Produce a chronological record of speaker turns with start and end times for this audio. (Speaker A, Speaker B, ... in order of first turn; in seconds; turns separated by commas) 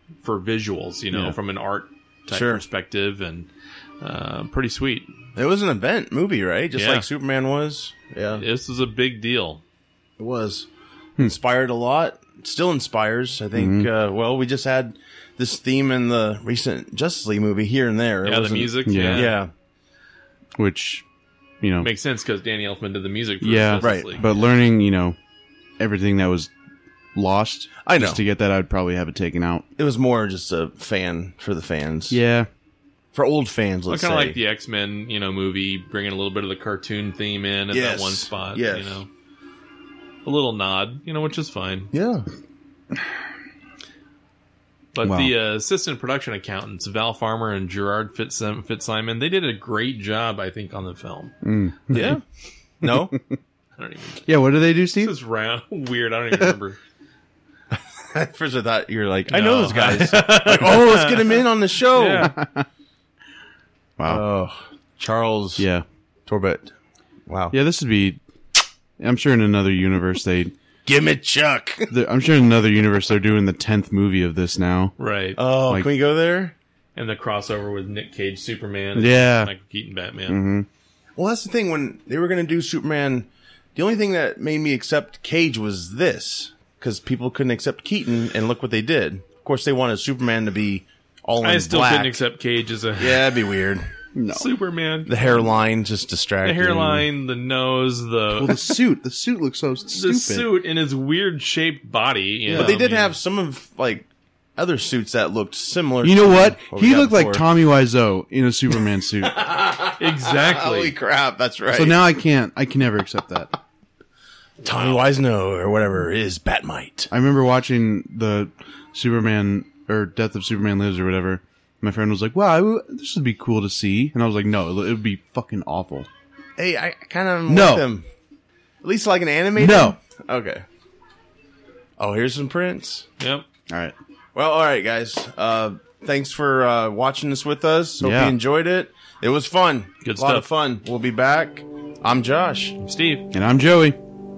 Speaker A: 0.2-3.5, Speaker B: 1.1-1.4, Speaker C: 2.3-2.6, Speaker A: 4.0-5.1, Speaker C: 5.3-8.4, Speaker A: 6.7-7.1, Speaker A: 8.3-9.6, Speaker C: 10.2-10.7, Speaker C: 11.2-19.5, Speaker B: 13.5-13.9, Speaker A: 18.2-19.4, Speaker B: 18.8-19.3, Speaker B: 20.6-21.0, Speaker B: 21.6-21.9, Speaker A: 21.8-24.3, Speaker B: 23.4-25.2, Speaker C: 23.8-24.2, Speaker B: 25.8-26.5, Speaker B: 27.1-29.6, Speaker C: 27.8-28.2, Speaker C: 29.8-32.2, Speaker B: 32.1-32.5, Speaker C: 33.1-34.4, Speaker A: 33.9-39.1, Speaker C: 37.7-39.0, Speaker A: 40.2-41.9, Speaker C: 41.9-42.2, Speaker A: 44.9-51.4, Speaker B: 45.0-45.3, Speaker B: 51.4-52.2, Speaker C: 51.9-52.2, Speaker C: 52.8-53.2, Speaker B: 52.8-53.4, Speaker A: 53.8-54.2, Speaker B: 54.2-55.1, Speaker A: 54.9-56.8, Speaker C: 58.1-62.3, Speaker A: 59.3-62.3, Speaker B: 62.2-62.6, Speaker C: 64.1-65.7, Speaker B: 65.6-65.8, Speaker C: 66.3-66.7, Speaker C: 67.3-67.6, Speaker B: 67.5-68.2, Speaker B: 69.0-70.5, Speaker C: 70.8-71.9, Speaker B: 71.9-74.9, Speaker A: 75.0-75.4, Speaker C: 75.3-76.5, Speaker A: 76.9-80.4, Speaker B: 78.9-79.5, Speaker B: 80.3-80.7, Speaker C: 81.2-92.2, Speaker A: 91.4-93.4, Speaker C: 93.0-93.9, Speaker B: 94.2-94.5, Speaker A: 94.3-95.2, Speaker C: 95.1-97.1, Speaker A: 96.4-98.7, Speaker B: 98.3-100.5, Speaker A: 99.9-103.2, Speaker B: 102.5-102.7, Speaker C: 102.5-107.4, Speaker B: 106.0-109.5, Speaker C: 109.2-112.0, Speaker A: 109.9-110.9, Speaker B: 111.7-113.5, Speaker C: 114.6-117.1, Speaker B: 117.1-126.1, Speaker C: 126.6-128.1, Speaker B: 127.5-127.8, Speaker C: 128.8-130.6, Speaker B: 129.6-130.0, Speaker C: 132.0-133.1, Speaker A: 133.2-133.4, Speaker B: 133.7-133.9, Speaker C: 134.3-142.8, Speaker B: 138.0-138.3, Speaker A: 140.0-140.5, Speaker A: 142.8-143.2, Speaker B: 143.3-144.0